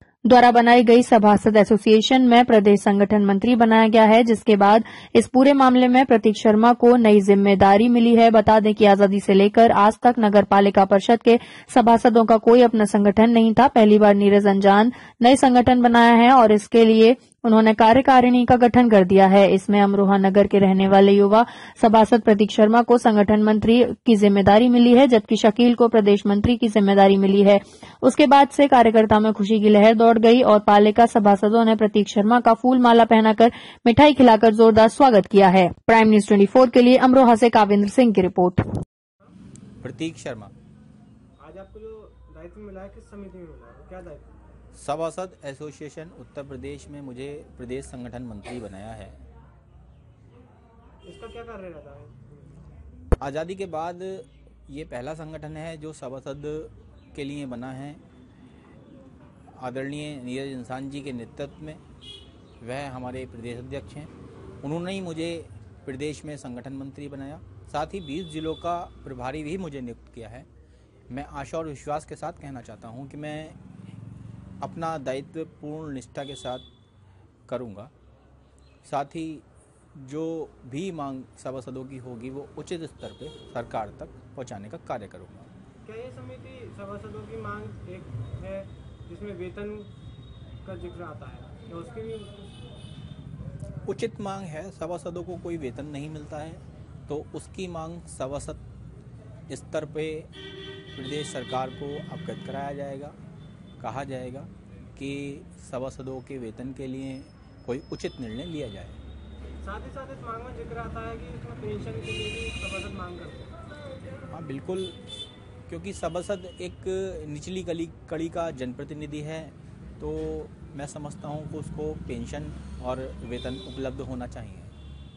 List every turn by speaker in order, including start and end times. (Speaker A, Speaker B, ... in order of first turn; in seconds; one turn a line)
Speaker A: 0.2-38.7
Speaker B: 39.8-40.5
Speaker C: 41.4-44.3
Speaker B: 44.7-49.2
Speaker C: 51.0-52.6
Speaker B: 53.2-58.0
Speaker B: 59.6-61.8
Speaker B: 62.6-64.1
Speaker B: 64.6-70.5
Speaker B: 71.1-73.6
Speaker B: 74.6-76.6
Speaker B: 77.5-77.9
Speaker B: 78.8-85.5
Speaker C: 85.8-89.9
Speaker C: 90.6-92.6
Speaker B: 93.9-98.6
Speaker B: 99.5-100.3
Speaker B: 101.0-103.2
Speaker B: 103.8-109.0
Speaker C: 109.6-113.6
Speaker B: 114.3-115.0
Speaker B: 115.7-124.7